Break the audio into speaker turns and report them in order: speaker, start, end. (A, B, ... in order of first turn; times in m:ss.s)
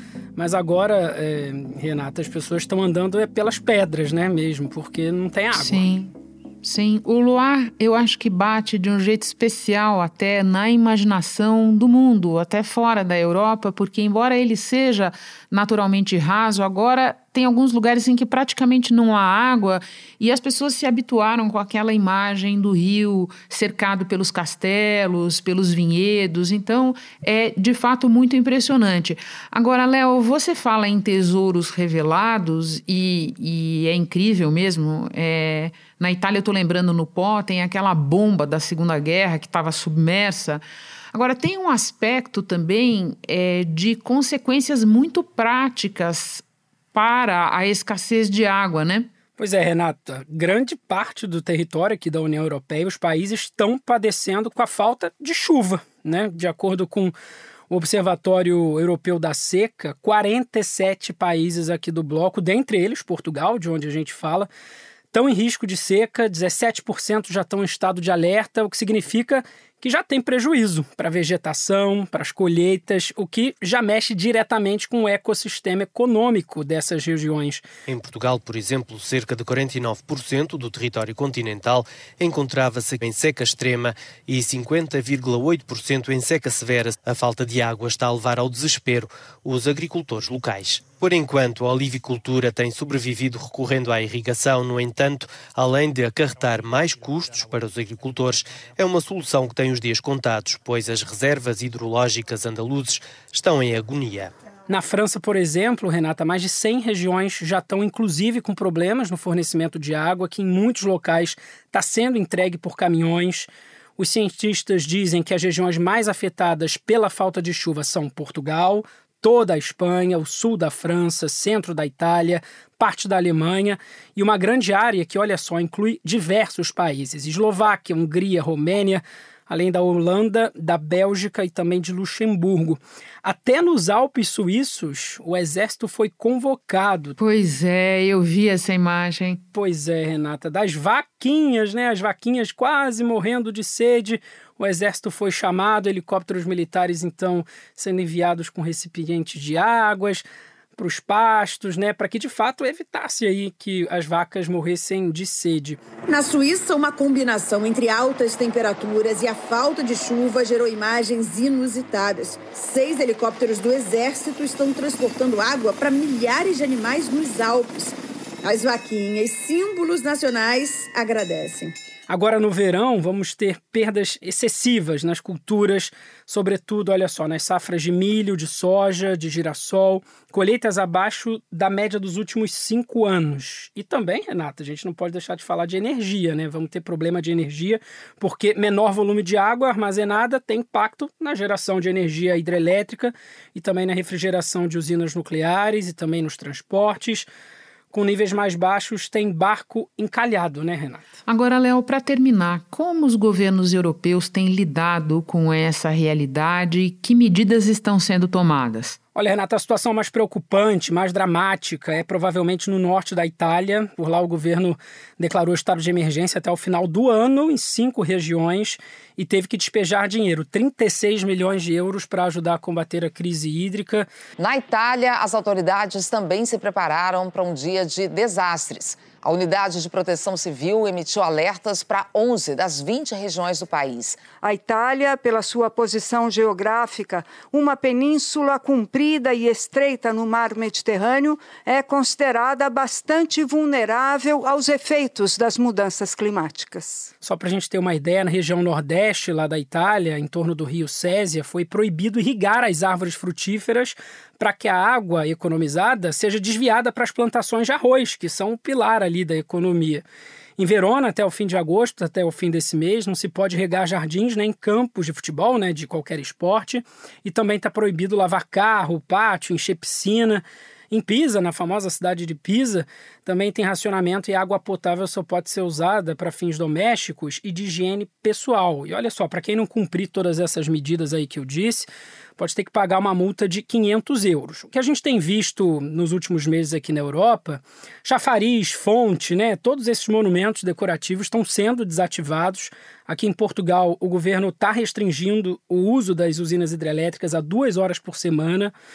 0:00.4-0:05.9 A
0:05.5-0:49.1 B
0:49.4-0:57.1 A
0:57.7-1:04.5 A
1:05.1-1:17.6 A
1:17.9-1:44.3 C
1:44.7-2:17.2 A
2:17.2-2:19.4 B
2:19.5-2:30.2 A
2:30.8-2:35.8 A
2:36.1-2:51.7 D
2:52.1-3:17.3 A
3:17.9-3:21.0 A
3:21.3-3:29.0 B
3:29.1-3:44.1 A
3:44.4-3:54.2 E
3:54.4-4:07.1 F
4:07.2-4:20.0 A
4:20.6-4:58.7 A